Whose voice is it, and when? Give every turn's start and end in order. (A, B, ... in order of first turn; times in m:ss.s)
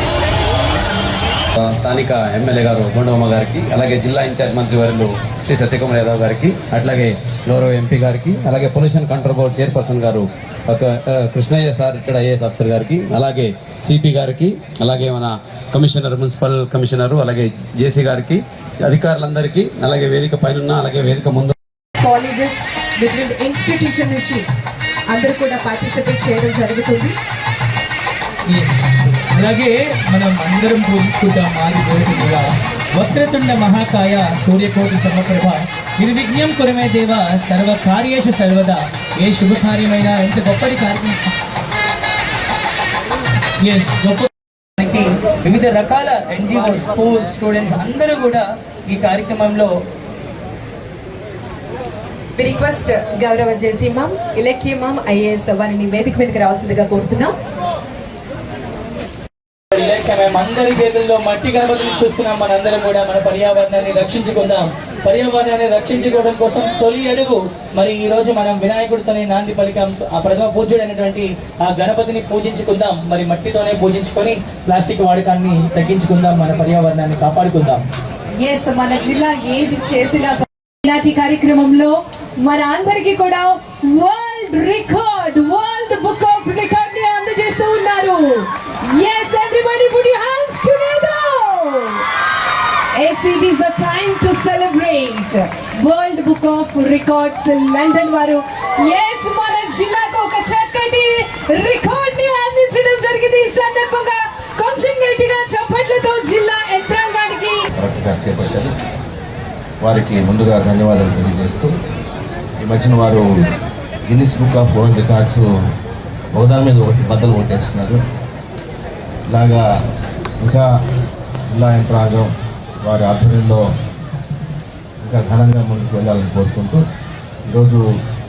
0:01.6-0:21.5 A
0:22.0-0:24.4 B
0:25.1-0:27.1 B
0:28.5-0:41.2 C
0:43.6-0:49.7 C
0:52.4-0:57.3 B
0:59.7-1:17.8 C
1:18.4-1:32.0 B
1:32.9-1:47.6 B
1:47.8-1:48.7 D
1:49.8-1:51.7 D
1:52.6-1:53.3 D
1:54.1-1:55.5 D
1:56.3-1:58.0 D
1:59.3-1:59.6 D
2:00.4-2:00.7 D
2:01.5-2:02.3 D
2:02.8-2:03.6 D
2:05.0-2:06.8 D
2:07.5-2:07.8 D